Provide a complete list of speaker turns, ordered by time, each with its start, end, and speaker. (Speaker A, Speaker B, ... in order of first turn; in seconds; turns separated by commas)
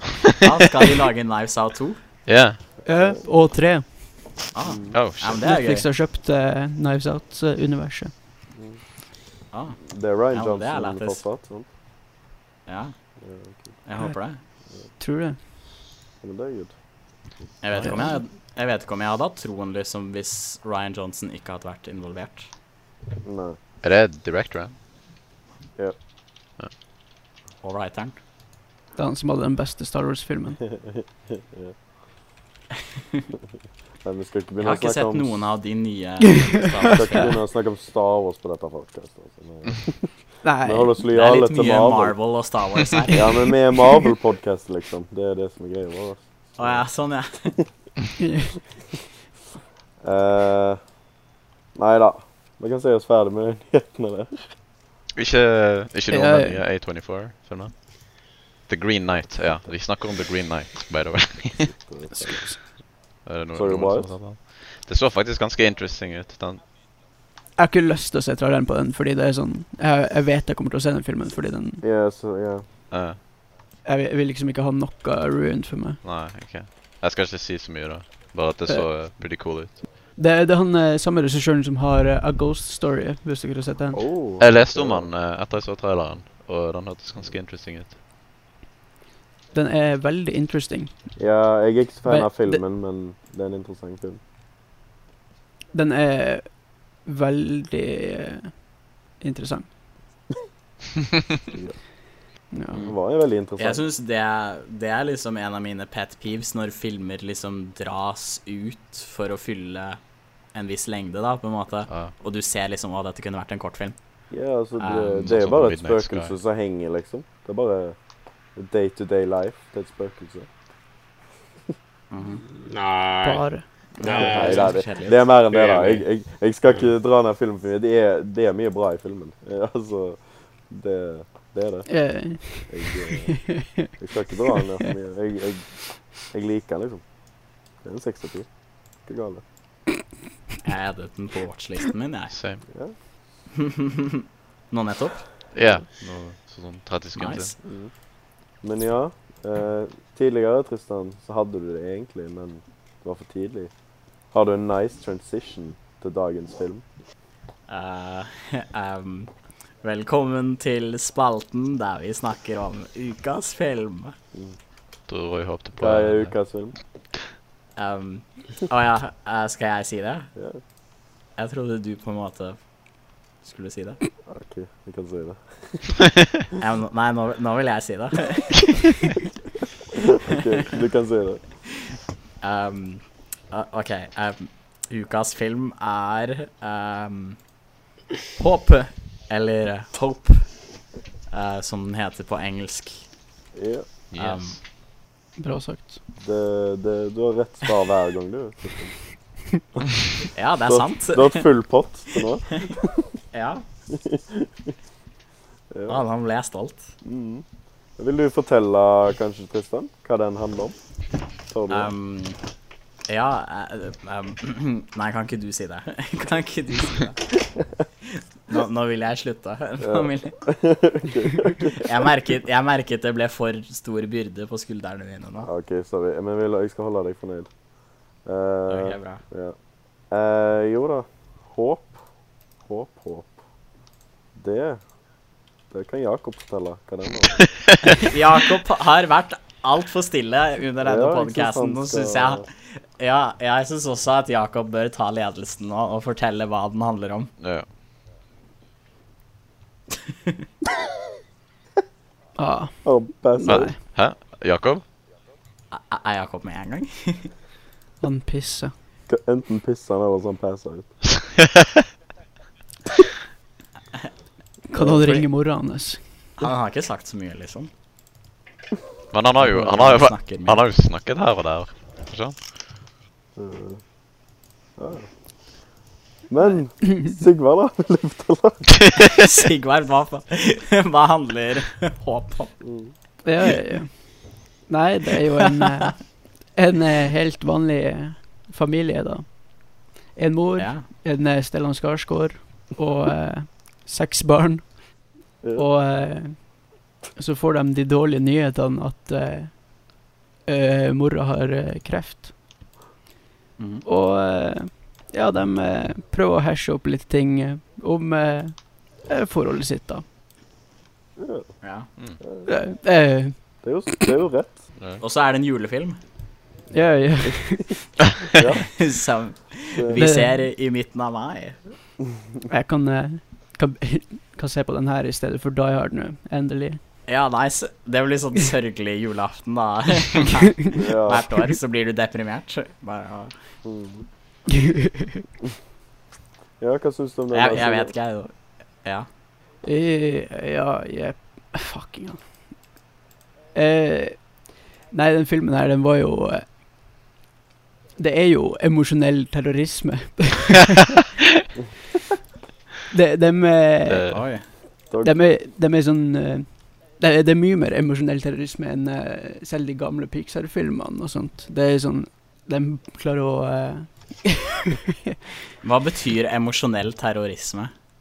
Speaker A: 0.4-2.0, Speaker B: 2.3-2.6, Speaker C: 2.9-4.5, Speaker D: 2.9-3.2, Speaker A: 4.5-5.9, Speaker D: 4.6-5.0, Speaker B: 4.9-5.4, Speaker C: 5.4-8.1, Speaker D: 8.5-8.8, Speaker A: 9.5-11.2, Speaker D: 9.9-11.7, Speaker A: 12.7-13.2, Speaker D: 13.2-13.8, Speaker A: 13.8-14.4, Speaker C: 14.0-14.3, Speaker C: 15.0-15.4, Speaker D: 16.2-16.8, Speaker A: 17.6-22.5, Speaker C: 17.8-18.2, Speaker D: 23.2-23.6, Speaker B: 23.8-24.8, Speaker A: 27.6-28.2, Speaker C: 28.9-30.7, Speaker D: 34.0-35.4, Speaker A: 34.6-37.4, Speaker D: 36.9-42.2, Speaker C: 40.4-41.0, Speaker A: 41.1-43.5, Speaker D: 43.1-46.9, Speaker A: 46.6-47.5, Speaker C: 48.2-48.7, Speaker D: 50.0-50.8, Speaker D: 51.8-54.5, Speaker B: 55.1-61.8, Speaker C: 56.1-56.6, Speaker D: 61.9-62.5, Speaker C: 62.2-62.6, Speaker B: 63.2-66.6, Speaker D: 63.5-64.1, Speaker C: 67.6-71.8, Speaker D: 71.8-72.7, Speaker B: 72.9-73.2, Speaker C: 73.8-76.0, Speaker B: 76.0-79.8, Speaker C: 80.2-84.1, Speaker D: 83.9-85.1, Speaker B: 84.4-88.0, Speaker C: 89.5-91.1, Speaker D: 91.2-94.2, Speaker C: 92.1-92.6, Speaker C: 95.7-99.7, Speaker D: 101.5-101.8, Speaker C: 102.5-102.9, Speaker D: 102.8-103.8, Speaker A: 103.6-110.0, Speaker A: 110.5-114.0, Speaker B: 111.9-112.1, Speaker D: 114.3-118.0, Speaker A: 114.8-115.2, Speaker B: 115.2-116.3, Speaker D: 118.5-120.5, Speaker A: 122.1-122.4, Speaker E: 122.5-124.8, Speaker C: 123.2-123.7, Speaker A: 124.0-125.5, Speaker D: 124.1-137.0, Speaker E: 125.5-126.0, Speaker C: 131.9-132.7, Speaker D: 137.8-138.5, Speaker D: 139.0-139.4, Speaker A: 140.6-142.4, Speaker B: 142.3-142.6, Speaker D: 142.7-142.9, Speaker A: 143.6-145.3, Speaker B: 145.5-147.5, Speaker A: 147.2-147.6, Speaker D: 147.6-147.9, Speaker D: 148.6-153.7, Speaker D: 154.3-156.8, Speaker A: 157.7-164.1, Speaker B: 165.1-166.3, Speaker D: 165.8-166.8, Speaker A: 167.8-170.3, Speaker A: 171.4-172.6, Speaker A: 173.4-174.0, Speaker D: 174.3-176.0, Speaker A: 176.6-178.6, Speaker D: 180.1-181.4, Speaker A: 182.4-187.4, Speaker A: 188.4-190.7, Speaker A: 191.3-193.1, Speaker D: 193.6-193.9, Speaker B: 194.1-194.6, Speaker A: 194.1-194.6, Speaker C: 195.4-196.0, Speaker D: 196.2-199.0, Speaker A: 200.3-201.5, Speaker D: 200.7-203.0, Speaker A: 203.3-203.6, Speaker D: 203.9-204.5, Speaker D: 205.7-206.0, Speaker A: 205.9-206.9, Speaker D: 207.0-207.4, Speaker D: 208.0-210.8, Speaker D: 211.5-211.9, Speaker A: 211.7-212.4, Speaker A: 213.1-217.6, Speaker A: 218.5-220.4, Speaker D: 219.8-221.8, Speaker A: 221.8-225.5, Speaker D: 225.4-227.5, Speaker D: 228.2-229.6, Speaker A: 228.7-229.2, Speaker D: 230.1-232.0, Speaker D: 232.6-233.3, Speaker D: 234.3-234.8, Speaker D: 235.7-237.4, Speaker A: 238.0-247.3, Speaker D: 240.8-242.4, Speaker B: 247.4-247.7, Speaker C: 252.4-253.8, Speaker D: 252.8-253.7, Speaker B: 253.4-254.8, Speaker A: 255.7-257.3, Speaker C: 258.0-258.7, Speaker D: 259.1-260.9, Speaker B: 261.2-261.8, Speaker C: 264.7-266.3, Speaker D: 264.7-265.1, Speaker A: 266.4-267.7, Speaker B: 269.1-272.4, Speaker A: 269.4-270.6, Speaker D: 273.4-273.8, Speaker D: 274.8-275.1, Speaker D: 276.3-278.7, Speaker A: 279.0-282.7, Speaker D: 282.6-282.9, Speaker C: 283.2-296.6, Speaker A: 290.6-290.9, Speaker C: 297.1-299.8, Speaker C: 300.4-302.3, Speaker A: 303.6-303.9, Speaker C: 303.9-310.0, Speaker D: 311.2-311.5, Speaker A: 311.6-311.9, Speaker D: 312.2-312.5, Speaker C: 312.5-313.4, Speaker D: 313.6-314.6, Speaker A: 315.0-316.0, Speaker C: 316.7-317.8, Speaker D: 318.3-318.6, Speaker A: 318.7-321.6, Speaker C: 319.9-320.4, Speaker C: 322.5-326.8, Speaker A: 327.1-333.3, Speaker D: 330.8-331.2, Speaker D: 333.6-334.1, Speaker D: 336.6-337.9, Speaker A: 337.3-339.1, Speaker C: 339.6-342.2, Speaker C: 343.5-346.5, Speaker C: 348.0-350.9, Speaker C: 352.9-354.2, Speaker B: 353.8-354.2, Speaker A: 354.1-354.5, Speaker D: 354.9-355.2, Speaker C: 355.0-365.1, Speaker A: 365.6-367.7